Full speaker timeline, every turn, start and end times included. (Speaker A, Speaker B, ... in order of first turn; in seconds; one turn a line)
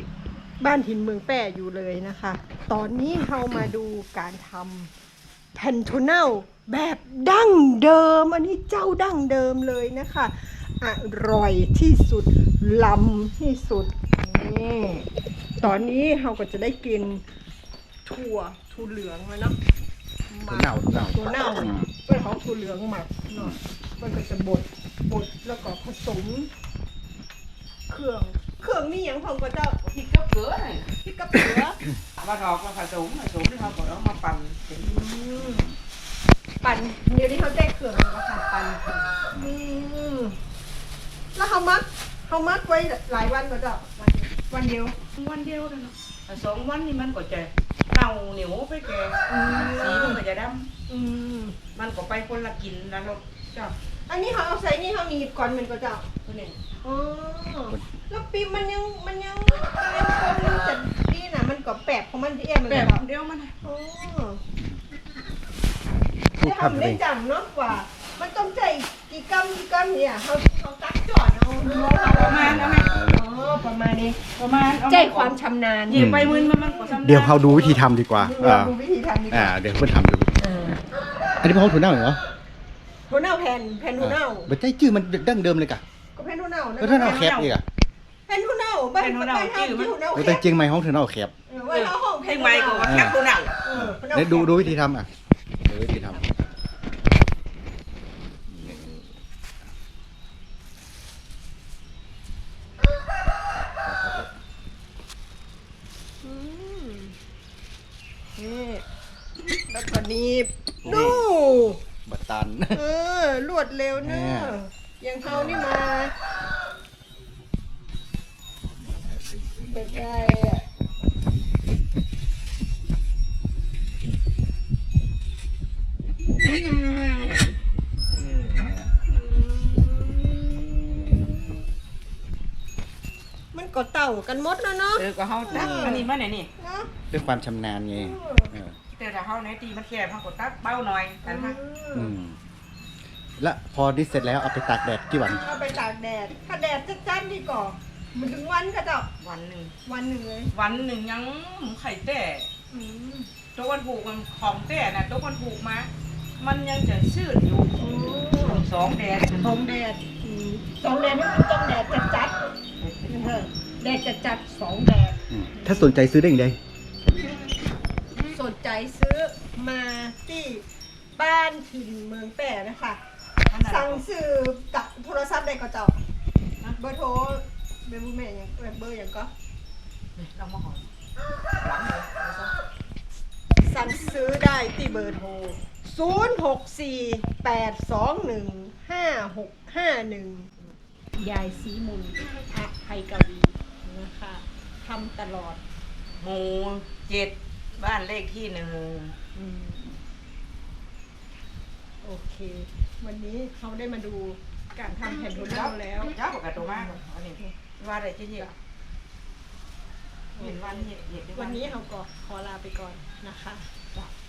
Speaker A: 0.6-4.9
Speaker A: 5.5-15.1
Speaker A: 15.6-17.2
Speaker A: 18.0-19.5
Speaker A: 20.3-26.5
Speaker B: 20.5-21.9
Speaker A: 27.9-29.8
Speaker C: 29.8-30.9
Speaker A: 31.0-31.8
Speaker C: 32.2-35.0
Speaker A: 34.8-35.7
Speaker A: 36.6-40.4
Speaker A: 41.3-45.0
Speaker C: 45.2-50.7
Speaker A: 49.3-50.2
Speaker A: 50.9-51.6
Speaker C: 51.7-53.7
Speaker A: 54.1-56.0
Speaker C: 56.2-56.6
Speaker A: 56.8-63.0
Speaker C: 62.7-63.5
Speaker A: 63.6-64.4
Speaker B: 66.4-67.0
Speaker A: 66.4-74.2
Speaker C: 72.1-72.9
Speaker B: 72.4-73.2
Speaker C: 74.3-75.3
Speaker A: 74.8-79.5
Speaker C: 75.9-77.8
Speaker B: 75.9-76.4
Speaker B: 77.0-78.7
Speaker B: 79.3-80.3
Speaker A: 80.4-80.8
Speaker B: 81.4-82.2
Speaker A: 83.1-84.5
Speaker B: 84.0-85.8
Speaker A: 86.1-87.4
Speaker B: 86.8-87.6
Speaker C: 87.0-87.5
Speaker A: 88.3-90.4
Speaker C: 89.0-90.0
Speaker B: 90.1-91.3
Speaker A: 91.5-94.7
Speaker C: 91.7-93.5
Speaker B: 92.8-93.2
Speaker B: 93.7-95.1
Speaker B: 95.7-96.2
Speaker B: 98.5-99.1
Speaker B: 103.7-104.3
Speaker A: 106.2-107.1
Speaker A: 108.4-108.8
Speaker A: 109.7-111.8
Speaker B: 110.8-112.8
Speaker C: 110.9-111.2
Speaker A: 112.7-116.1
Speaker B: 114.0-114.5
Speaker B: 115.3-115.7
Speaker A: 119.6-120.6
Speaker B: 128.5-128.8
Speaker A: 129.1-131.5
Speaker A: 133.5-136.9
Speaker C: 134.9-136.5
Speaker B: 137.1-138.8
Speaker A: 137.9-138.5
Speaker C: 138.9-141.6
Speaker A: 141.2-142.1
Speaker B: 141.9-142.3
Speaker B: 143.4-145.4
Speaker A: 145.4-149.1
Speaker C: 149.2-149.7
Speaker A: 149.8-150.5
Speaker C: 150.5-152.5
Speaker A: 152.7-153.3
Speaker C: 153.5-157.8
Speaker A: 157.8-158.7
Speaker C: 158.4-159.5
Speaker A: 159.4-162.3
Speaker C: 162.8-163.4
Speaker A: 163.1-166.0
Speaker B: 165.3-166.6
Speaker A: 168.2-170.6
Speaker A: 171.2-173.0
Speaker C: 173.5-174.0
Speaker A: 173.6-175.9
Speaker A: 176.8-179.3
Speaker C: 180.2-180.8
Speaker C: 181.6-182.5
Speaker A: 183.6-190.5
Speaker A: 191.2-195.6
Speaker C: 196.2-199.2
Speaker A: 199.3-199.9
Speaker A: 202.0-207.5
Speaker C: 205.1-208.5
Speaker A: 210.3-213.7
Speaker C: 210.4-211.7